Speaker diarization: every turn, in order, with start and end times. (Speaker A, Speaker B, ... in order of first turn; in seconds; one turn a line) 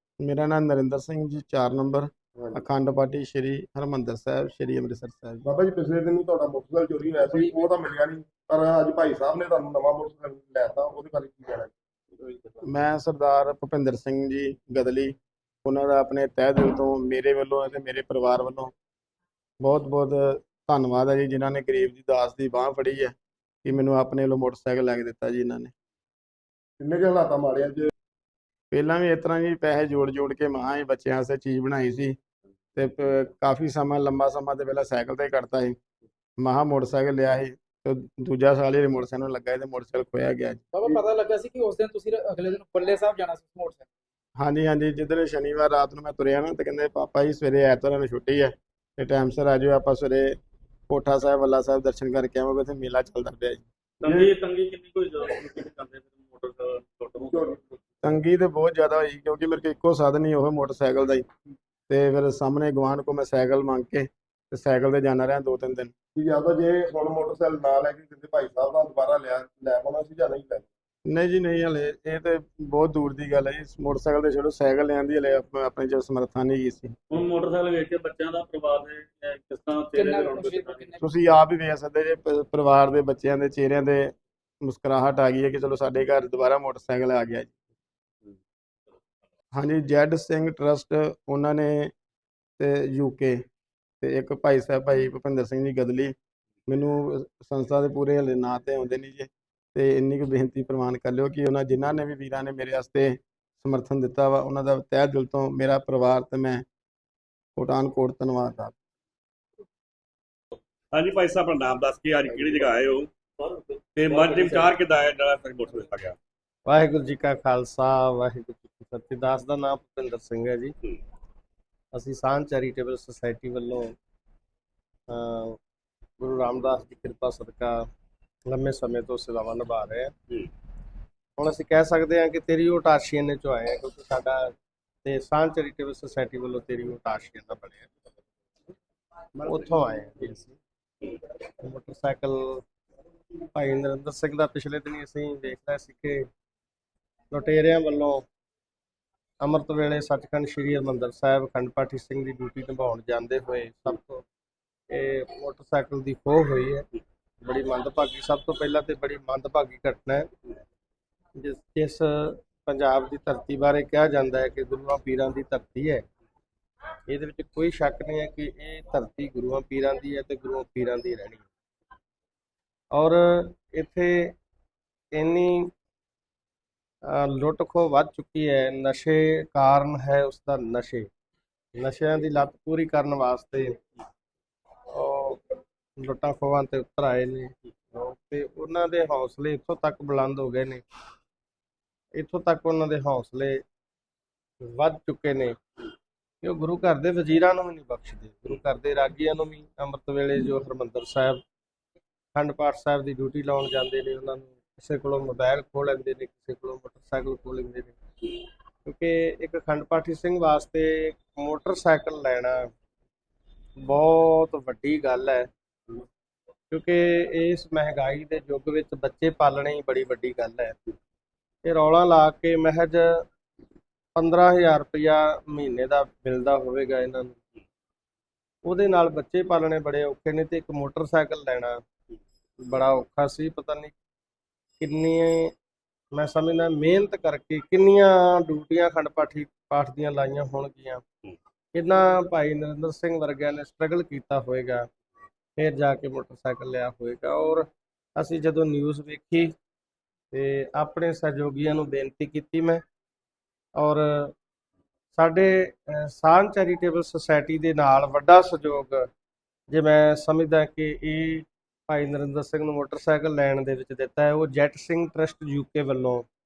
Speaker A: 0.2-5.4
Speaker B: 5.4-11.7
Speaker A: 12.7-15.1
Speaker A: 15.6-18.7
Speaker A: 19.6-25.7
Speaker B: 26.8-27.9
Speaker A: 28.7-32.1
Speaker A: 32.8-35.8
Speaker A: 36.4-40.6
Speaker C: 40.7-43.9
Speaker A: 44.4-50.3
Speaker A: 50.9-53.6
Speaker D: 54.0-57.6
Speaker B: 57.2-57.6
Speaker A: 58.0-61.2
Speaker A: 61.9-65.9
Speaker B: 66.2-70.7
Speaker A: 71.1-76.9
Speaker D: 77.1-80.9
Speaker C: 79.9-81.0
Speaker A: 81.0-84.1
Speaker A: 84.6-87.5
Speaker A: 89.5-91.9
Speaker A: 92.6-93.4
Speaker A: 94.0-96.1
Speaker A: 96.7-106.6
Speaker A: 107.5-108.7
Speaker E: 110.9-113.1
Speaker D: 113.4-114.8
Speaker E: 114.0-116.2
Speaker F: 116.7-120.7
Speaker F: 121.9-123.9
Speaker F: 125.1-125.6
Speaker F: 126.2-127.8
Speaker F: 128.5-130.1
Speaker F: 131.4-134.5
Speaker F: 135.0-137.9
Speaker F: 139.4-140.5
Speaker F: 141.6-142.6
Speaker F: 143.5-146.2
Speaker F: 147.3-148.2
Speaker F: 149.4-154.2
Speaker F: 154.9-156.8
Speaker F: 157.4-160.3
Speaker F: 161.4-166.0
Speaker F: 167.1-171.4
Speaker F: 172.9-174.3
Speaker F: 175.2-175.7
Speaker F: 177.1-181.1
Speaker F: 181.8-183.8
Speaker F: 184.9-185.4
Speaker F: 186.0-190.8
Speaker F: 192.2-193.6
Speaker F: 194.7-195.6
Speaker F: 196.4-201.4
Speaker F: 202.3-208.0
Speaker F: 208.8-212.7
Speaker F: 213.8-215.5
Speaker F: 216.7-220.8
Speaker F: 221.6-223.2
Speaker F: 224.1-227.4
Speaker F: 228.7-231.8
Speaker F: 232.6-233.9
Speaker F: 234.8-235.5
Speaker F: 236.1-241.0
Speaker F: 241.7-244.9
Speaker F: 245.6-249.5
Speaker F: 250.3-252.8
Speaker F: 253.8-254.3
Speaker F: 255.1-259.1
Speaker F: 259.7-266.2